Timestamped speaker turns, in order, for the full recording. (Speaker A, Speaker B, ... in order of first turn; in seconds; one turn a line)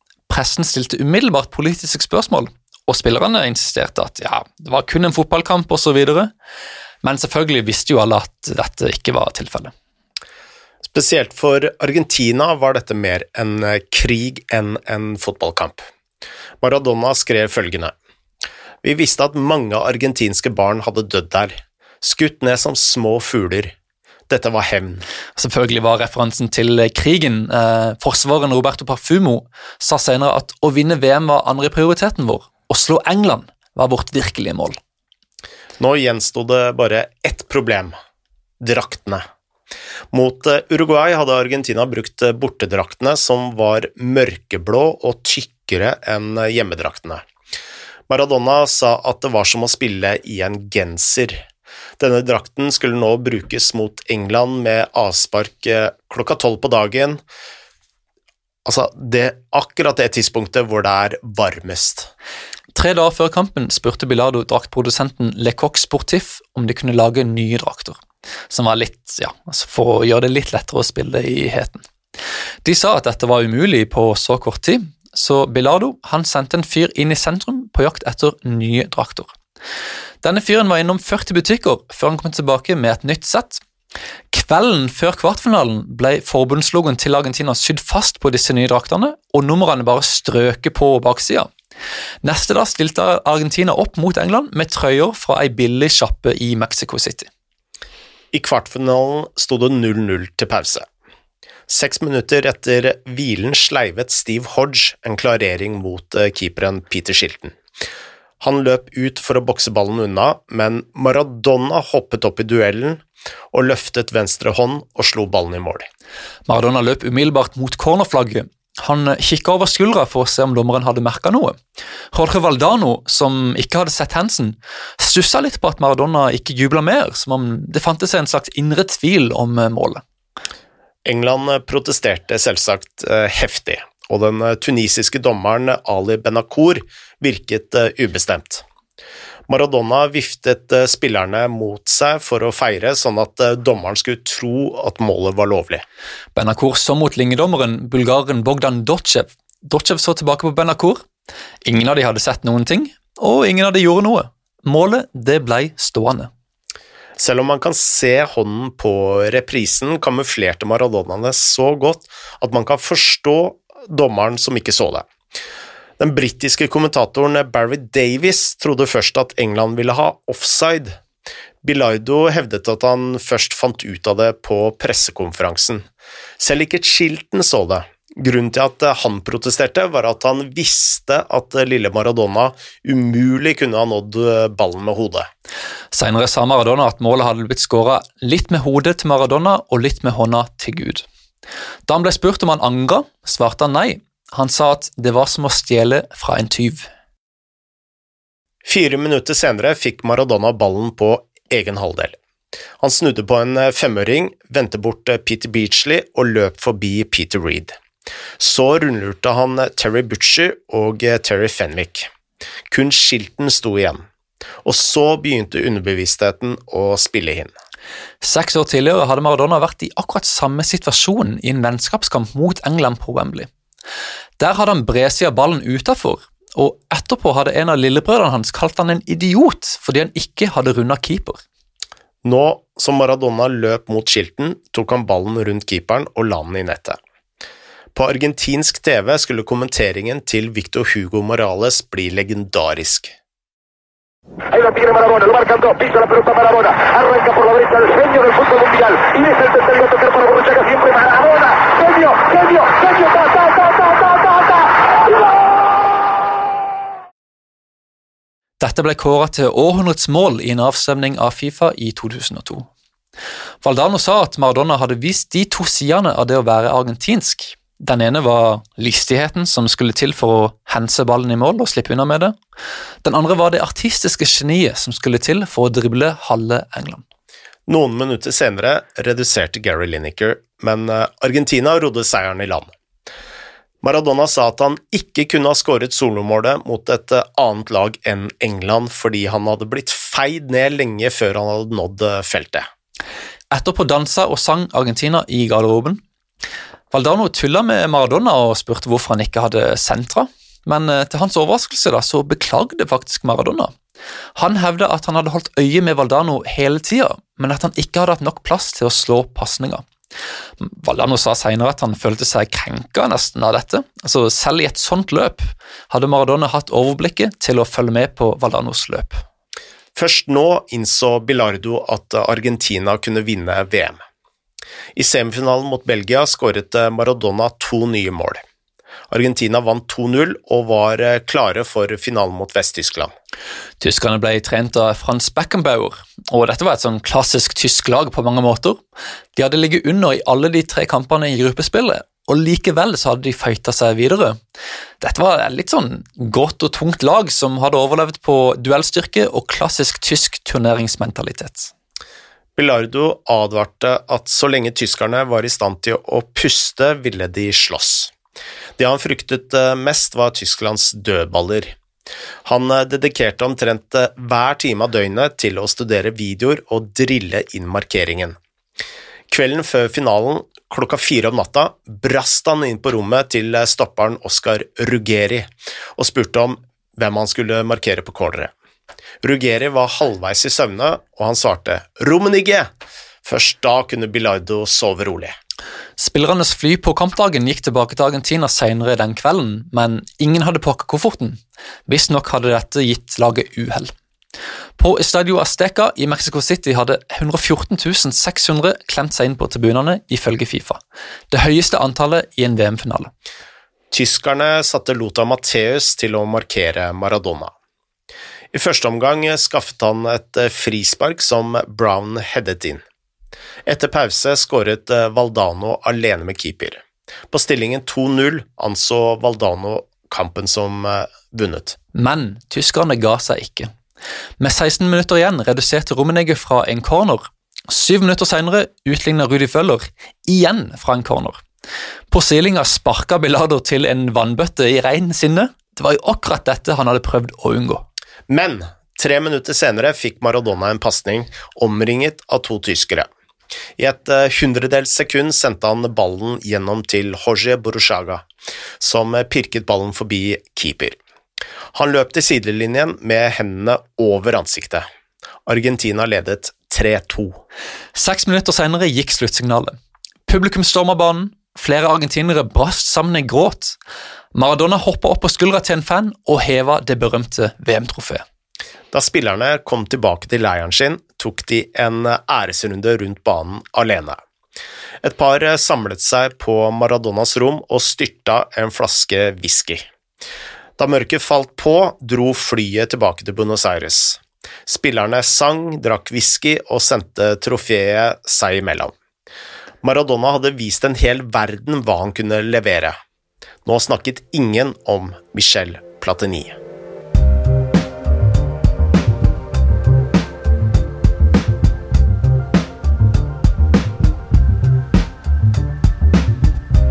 Speaker A: 0.3-6.3
Speaker A: 7.0-9.7
Speaker B: 10.8-15.9
Speaker B: 16.6-17.9
Speaker B: 18.8-23.7
Speaker B: 24.3-25.1
Speaker A: 25.4-34.8
Speaker B: 35.8-38.0
Speaker B: 38.6-39.2
Speaker B: 40.1-47.2
Speaker B: 48.1-51.5
Speaker B: 52.0-57.2
Speaker B: 58.7-62.1
Speaker A: 62.7-68.0
Speaker A: 68.5-71.8
Speaker A: 72.6-79.3
Speaker A: 80.2-83.6
Speaker A: 84.3-91.5
Speaker A: 92.2-97.3
Speaker B: 98.3-100.9
Speaker B: 101.7-107.5
Speaker B: 108.4-115.9
Speaker A: 116.5-121.6
Speaker A: 122.1-130.0
Speaker B: 131.1-138.6
Speaker B: 139.5-145.8
Speaker A: 146.3-151.0
Speaker A: 151.7-156.3
Speaker B: 157.2-165.1
Speaker B: 166.0-171.0
Speaker B: 171.6-175.9
Speaker B: 176.4-185.3
Speaker A: 185.9-191.1
Speaker A: 191.9-196.9
Speaker B: 198.7-202.2
Speaker B: 202.8-207.8
Speaker B: 208.4-212.1
Speaker B: 212.7-214.0
Speaker B: 214.6-217.5
Speaker A: 218.2-223.5
Speaker A: 224.4-231.4
Speaker B: 232.2-237.0
Speaker B: 237.9-243.1
Speaker C: 244.7-254.1
Speaker A: 258.6-262.7
Speaker A: 263.6-272.4
Speaker A: 273.0-277.0
Speaker B: 277.7-282.7
Speaker B: 283.8-292.7
Speaker A: 293.5-296.0
Speaker A: 296.9-303.7
Speaker A: 304.4-309.9
Speaker A: 310.6-319.2
Speaker B: 320.0-324.0
Speaker B: 325.0-328.4
Speaker B: 329.1-333.1
Speaker A: 333.8-338.8
Speaker A: 339.4-344.4
Speaker A: 345.0-351.7
Speaker B: 352.6-358.1
Speaker B: 358.8-361.7
Speaker B: 362.4-368.4
Speaker B: 369.3-378.5
Speaker B: 379.2-382.7
Speaker B: 383.2-385.4
Speaker A: 386.0-393.9
Speaker A: 394.8-400.8
Speaker A: 401.3-403.1
Speaker B: 403.9-407.5
Speaker B: 408.5-412.8
Speaker B: 413.7-421.8
Speaker A: 421.9-423.7
Speaker A: 424.4-431.4
Speaker A: 432.1-437.9
Speaker B: 438.3-443.1
Speaker B: 443.8-448.2
Speaker B: 448.8-451.0
Speaker B: 451.7-454.9
Speaker B: 455.5-457.4
Speaker A: 457.9-463.8
Speaker A: 464.3-468.2
Speaker B: 468.9-474.2
Speaker B: 475.0-479.9
Speaker B: 480.8-488.9
Speaker B: 489.8-493.0
Speaker B: 493.6-496.6